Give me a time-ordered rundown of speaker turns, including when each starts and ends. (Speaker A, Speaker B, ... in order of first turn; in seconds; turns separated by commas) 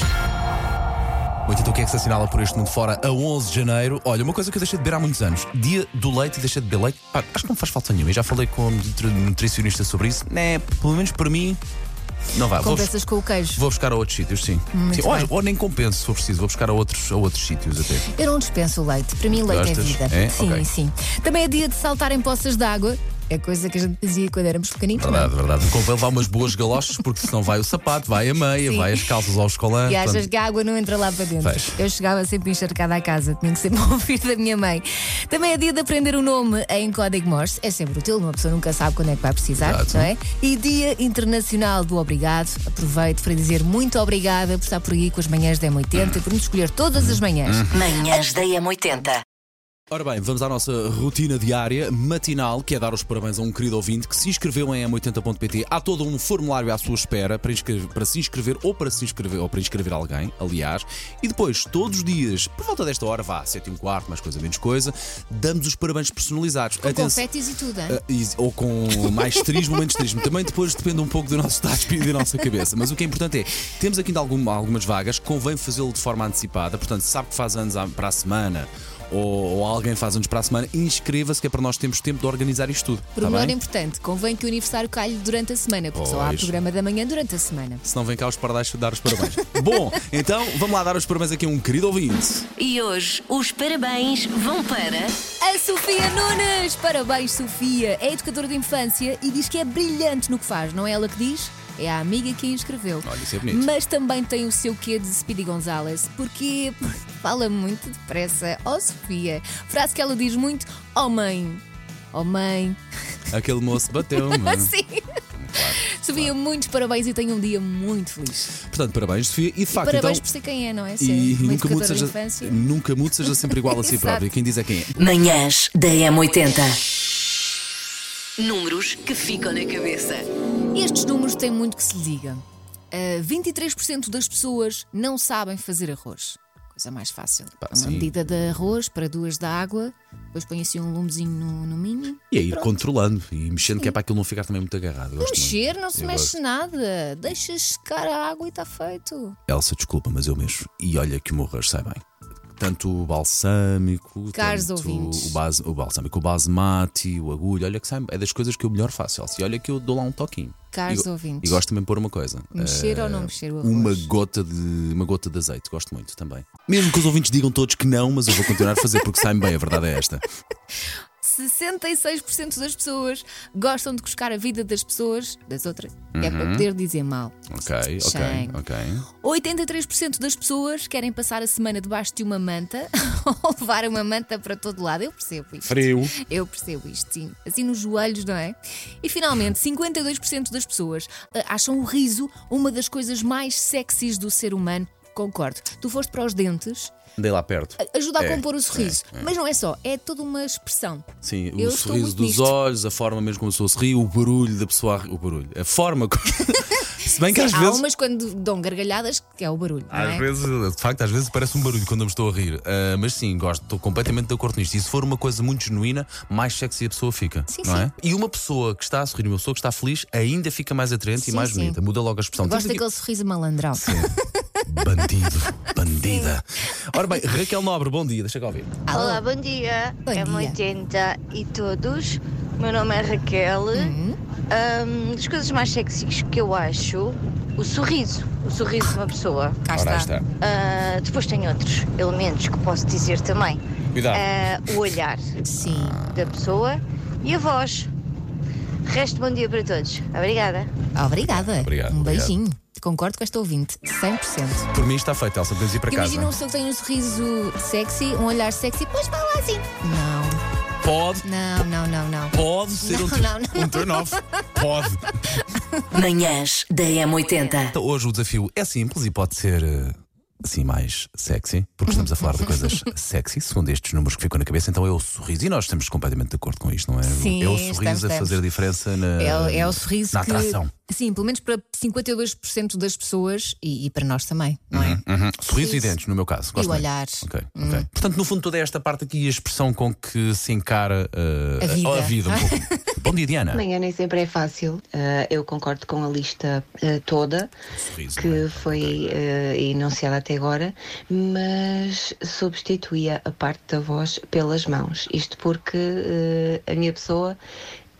Speaker A: 1.4-11.6, Speaker A: 12.3-12.9, Speaker B: 12.6-13.6, Speaker A: 13.5-18.1, Speaker B: 14.7-15.3, Speaker B: 18.1-25.3, Speaker A: 19.3-20.7, Speaker A: 25.0-30.3, Speaker B: 28.6-29.1, Speaker B: 29.8-47.6, Speaker A: 31.4-31.8, Speaker A: 39.6-40.1, Speaker A: 45.9-46.2, Speaker A: 47.0-47.8, Speaker C: 47.7-49.2, Speaker A: 49.9-67.2, Speaker B: 66.8-68.0, Speaker A: 67.9-83.6, Speaker B: 83.2-87.8, Speaker A: 85.9-86.6, Speaker A: 87.8-92.5, Speaker C: 92.6-95.2, Speaker B: 95.4-112.8, Speaker A: 103.0-103.7, Speaker A: 113.3-114.7, Speaker B: 114.1-115.0, Speaker A: 115.4-116.3, Speaker B: 115.9-118.5, Speaker A: 118.6-120.2, Speaker B: 119.7-122.6, Speaker A: 121.0-124.9, Speaker B: 123.8-124.3, Speaker C: 125.0-126.8, Speaker C: 128.4-130.2, Speaker B: 130.7-142.8, Speaker A: 137.6-138.1, Speaker A: 142.3-146.4, Speaker B: 145.2-149.4, Speaker A: 149.5-152.0, Speaker A: 152.6-170.2, Speaker B: 154.3-155.4, Speaker B: 160.7-161.6, Speaker B: 162.5-164.1, Speaker B: 171.2-177.5, Speaker A: 176.1-176.7, Speaker A: 177.5-179.1, Speaker B: 178.0-178.6, Speaker B: 179.2-196.9, Speaker A: 185.6-186.1, Speaker A: 197.2-199.3, Speaker B: 197.8-201.1, Speaker A: 201.2-207.8, Speaker B: 201.6-202.5, Speaker B: 207.3-210.3, Speaker A: 209.9-222.8, Speaker B: 217.5-217.9, Speaker B: 221.2-221.8, Speaker B: 222.4-224.2, Speaker A: 223.8-224.1, Speaker A: 224.6-228.8, Speaker B: 228.8-229.2, Speaker D: 228.9-233.9, Speaker B: 230.0-230.6, Speaker B: 233.7-234.2, Speaker D: 234.5-239.6, Speaker B: 239.7-240.1, Speaker A: 239.7-240.3, Speaker D: 240.4-243.6, Speaker A: 243.9-244.3, Speaker D: 244.1-245.2, Speaker B: 245.5-246.0, Speaker A: 245.7-246.0, Speaker D: 246.1-247.9, Speaker D: 248.9-250.7, Speaker B: 250.9-254.7, Speaker A: 251.2-252.4, Speaker A: 254.7-256.3, Speaker B: 255.9-260.4, Speaker A: 260.8-261.7, Speaker B: 261.2-264.3, Speaker A: 262.3-265.2, Speaker C: 265.9-267.7, Speaker A: 267.7-280.7, Speaker B: 277.1-278.4, Speaker B: 279.2-286.0, Speaker A: 284.7-293.6, Speaker B: 286.5-287.9, Speaker B: 291.6-292.8, Speaker E: 293.5-297.5, Speaker A: 297.8-299.1, Speaker E: 298.1-307.4